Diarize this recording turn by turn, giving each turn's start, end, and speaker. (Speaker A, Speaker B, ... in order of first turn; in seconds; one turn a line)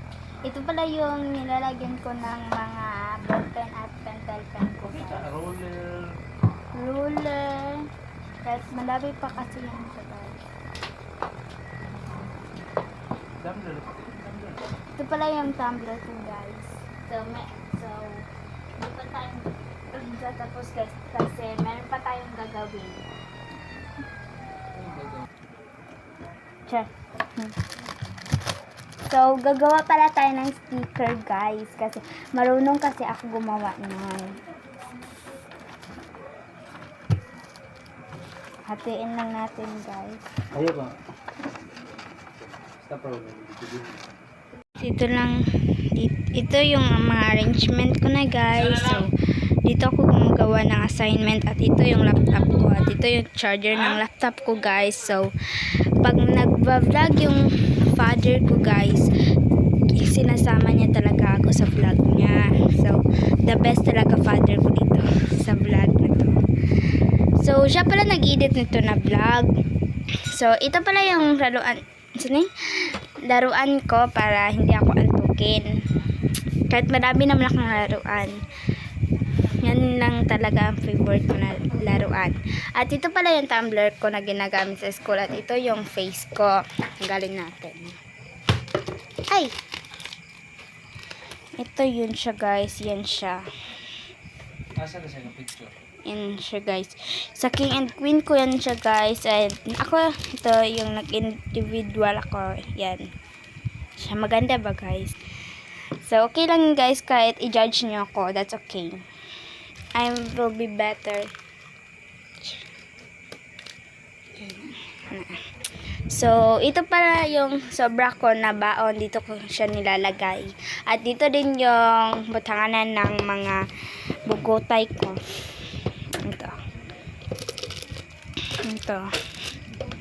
Speaker A: 0.4-5.3
Speaker B: 4.8-6.1
Speaker A: 6.7-7.9
Speaker A: 8.4-10.4
Speaker B: 13.4-14.8
Speaker A: 14.9-23.0
Speaker B: 24.8-25.2
Speaker A: 26.7-27.6
Speaker A: 29.0-34.4
Speaker A: 38.6-40.3
Speaker B: 40.5-40.9
Speaker B: 41.6-44.1
Speaker A: 44.8-45.4
Speaker A: 45.9-49.1
Speaker B: 48.7-49.0
Speaker A: 49.6-55.3
Speaker A: 56.0-59.1
Speaker A: 59.9-66.4
Speaker A: 67.3-69.5
Speaker A: 70.2-75.8
Speaker A: 76.7-78.4
Speaker A: 79.5-88.0
Speaker A: 89.3-89.6
Speaker A: 91.6-93.4
Speaker B: 94.8-95.7
Speaker A: 96.0-103.1
Speaker A: 104.0-105.2
Speaker A: 106.0-109.0
Speaker A: 109.9-111.3
Speaker A: 114.3-115.4
Speaker A: 116.1-123.6
Speaker A: 124.2-126.5
Speaker A: 128.6-129.1